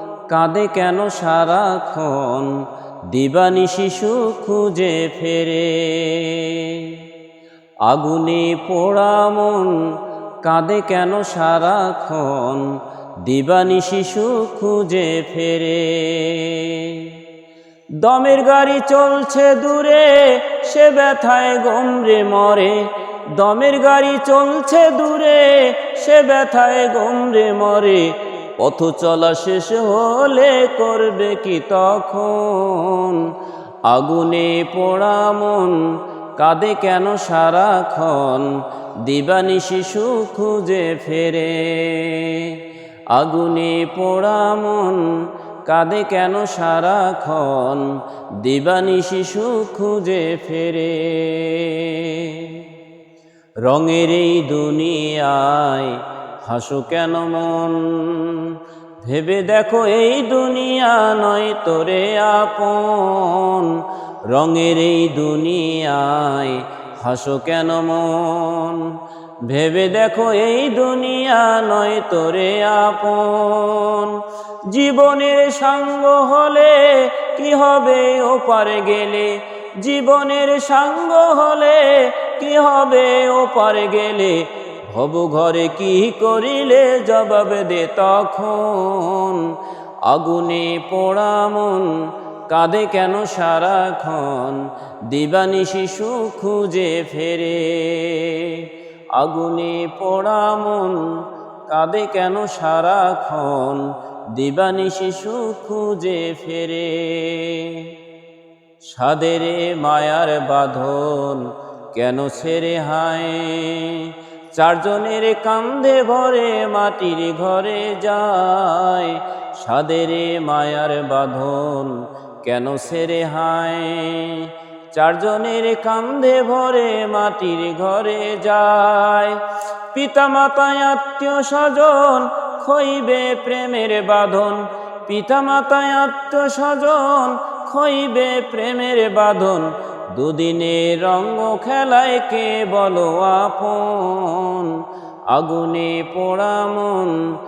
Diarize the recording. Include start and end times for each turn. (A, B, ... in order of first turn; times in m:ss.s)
0:00.3-0:02.6 A
0:03.1-0:07.0 A
0:07.8-0:09.8 A
0:10.4-0:12.7 A
0:13.2-0:17.1 A
0:18.0-0:22.8 A
0:23.4-0:33.3 A
0:33.9-0:35.8 A
0:36.4-0:38.5 A
0:39.0-0:42.6 A
0:43.1-0:45.1 A
0:45.6-0:52.6 A
0:53.6-1:03.8 A
1:04.3-1:08.9 A
1:09.5-1:14.2 A
1:14.7-1:29.5 A
1:30.1-1:32.0 A
1:32.5-1:41.1 A
1:41.7-1:47.9 A
1:48.9-2:09.4 A
2:09.9-2:24.8 A
2:25.3-2:27.2 A